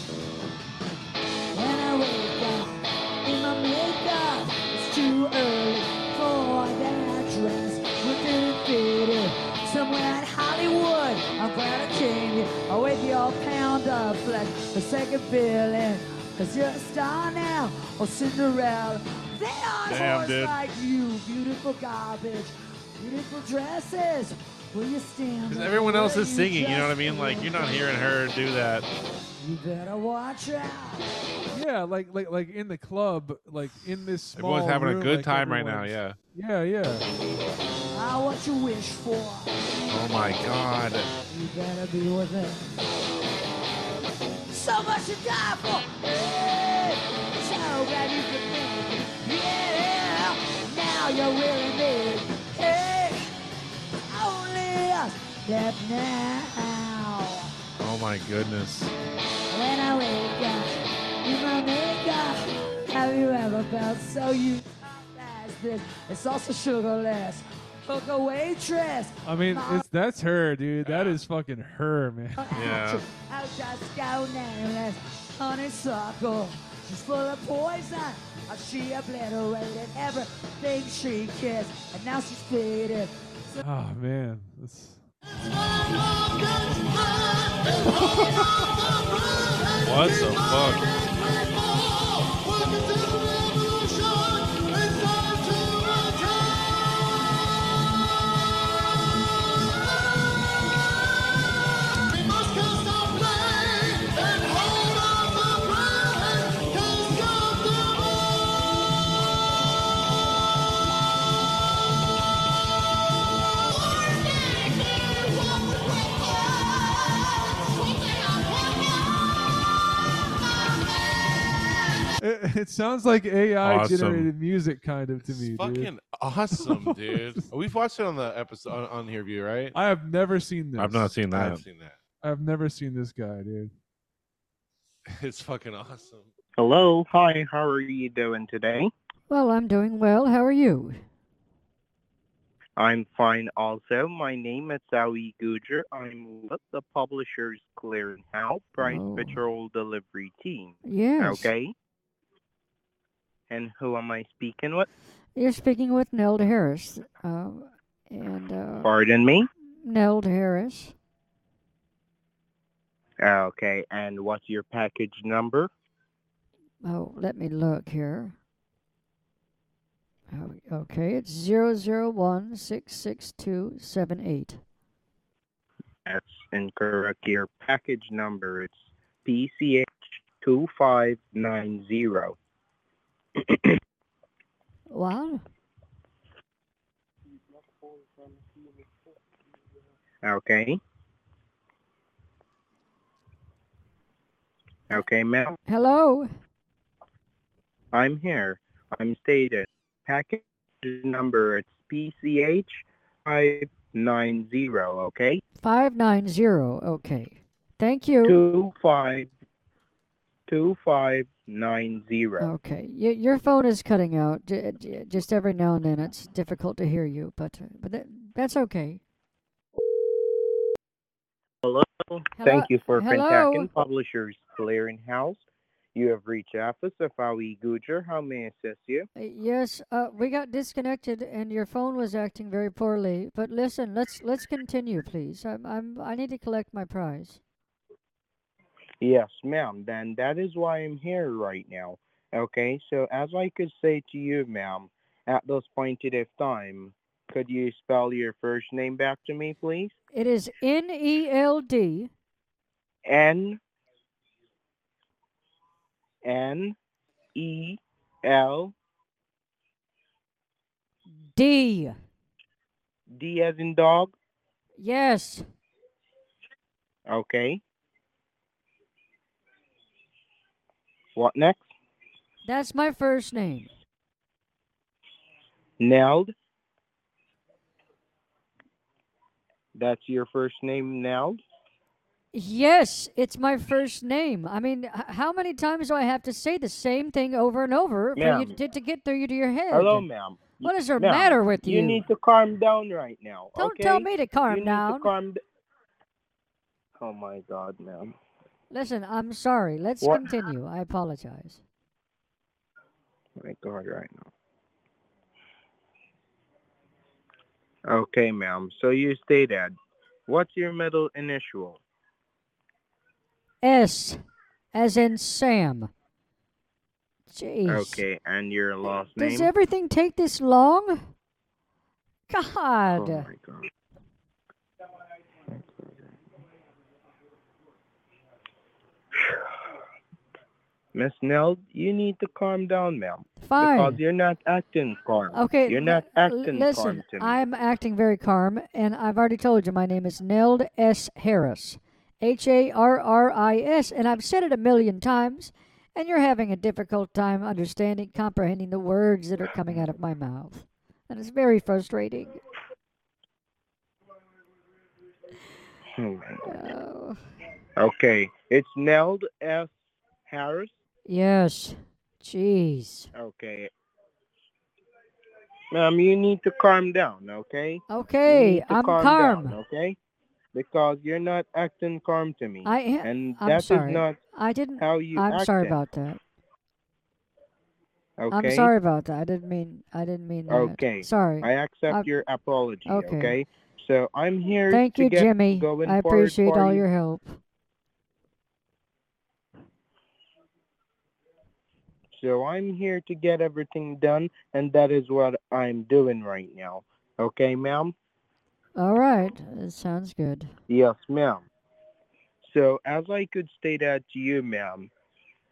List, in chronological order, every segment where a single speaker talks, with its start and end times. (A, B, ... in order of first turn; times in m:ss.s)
0:01.5-0:27.9 A
0:19.9-0:20.5 B
0:25.5-0:28.9 B
0:29.4-0:31.1 A
0:31.5-0:37.1 C
0:34.4-0:36.2 B
0:37.9-0:39.6 A
0:39.9-0:41.1 B
0:41.3-0:42.7 A
0:44.5-0:53.3 A
0:54.1-0:57.5 A
0:57.8-0:58.9 B
0:59.5-1:09.9 A
1:09.2-1:12.5 C
1:10.9-1:11.2 D
1:12.4-1:23.6 A
1:12.5-1:13.0 B
1:23.6-1:25.0 C
1:28.0-1:28.4 C
1:29.8-1:30.9 B
2:02.2-2:05.9 C
2:03.6-2:04.3 B
2:05.2-2:09.8 D
2:06.5-2:07.5 C
2:09.7-2:11.1 C
2:10.8-2:11.6 B
2:11.3-2:12.0 D
2:12.2-2:13.7 C
2:15.1-2:16.3 D
2:16.6-2:18.9 E
2:19.3-2:21.0 F
2:22.8-2:31.7 E
2:28.8-2:29.4 F
2:30.8-2:31.5 F
2:33.5-2:34.9 E
2:35.4-2:38.9 F
2:38.8-2:39.5 E
2:39.8-2:40.9 F
2:43.2-2:45.7 E
2:46.8-2:48.4 F
2:50.3-2:54.6 F
2:56.1-3:02.4 E
3:03.4-3:03.8 E
3:04.9-3:05.4 F
3:10.2-3:10.8 E
3:14.9-3:15.6 E
3:15.7-3:16.3 F
3:17.9-3:25.4 E
3:25.6-3:28.4 F
3:28.2-3:29.3 E
3:30.5-3:32.5 E
3:32.4-3:39.0 F
3:41.6-3:45.4 E
3:42.4-3:43.7 F
3:46.0-3:49.1 E
3:49.2-3:57.4 F
3:59.0-4:09.9 E
4:10.1-4:12.1 F
4:13.1-4:13.6 E
4:16.2-4:16.8 E
4:17.4-4:18.8 E
4:21.4-4:22.0 F
4:23.1-4:24.1 E
4:24.8-4:25.4 F
4:27.1-4:27.6 E
4:31.2-4:31.7 E
4:32.4-4:33.7 F
4:35.8-4:36.3 E
4:39.8-4:41.4 E
4:42.3-4:50.0 F
4:48.2-4:48.5 E
4:49.7-4:55.4 E
4:50.6-4:52.0 F
4:53.6-4:55.1 F
4:57.0-4:58.2 E
4:58.7-5:01.6 F
5:00.0-5:00.3 E
5:03.4-5:04.3 E
5:07.9-5:09.8 E
5:10.3-5:11.8 E
5:13.6-5:14.2 F
5:14.7-5:15.9 F
5:17.3-5:18.0 F
5:17.7-5:19.5 E
5:19.2-5:21.0 F
5:22.3-5:23.3 F
5:23.0-5:23.7 E
5:25.5-5:26.0 E
5:30.9-5:37.4 E
5:33.4-5:34.0 F
5:35.3-5:52.4 F
5:56.0-5:56.7 E
5:56.5-5:57.2 F
5:57.8-5:59.7 E
6:00.3-6:00.7 E
6:01.1-6:03.1 F
6:03.2-6:03.7 E
6:05.7-6:10.0 E
6:07.9-6:09.6 F
6:10.5-6:14.2 E
6:12.6-6:16.2 F
6:14.8-6:15.8 E
6:18.2-6:18.7 E
6:18.3-6:22.1 F
6:20.5-6:26.8 E
6:22.9-6:23.4 F
6:24.7-6:27.4 F
6:32.1-6:37.9 E
6:38.8-6:40.5 F
6:40.7-6:41.4 E
6:42.4-6:44.9 E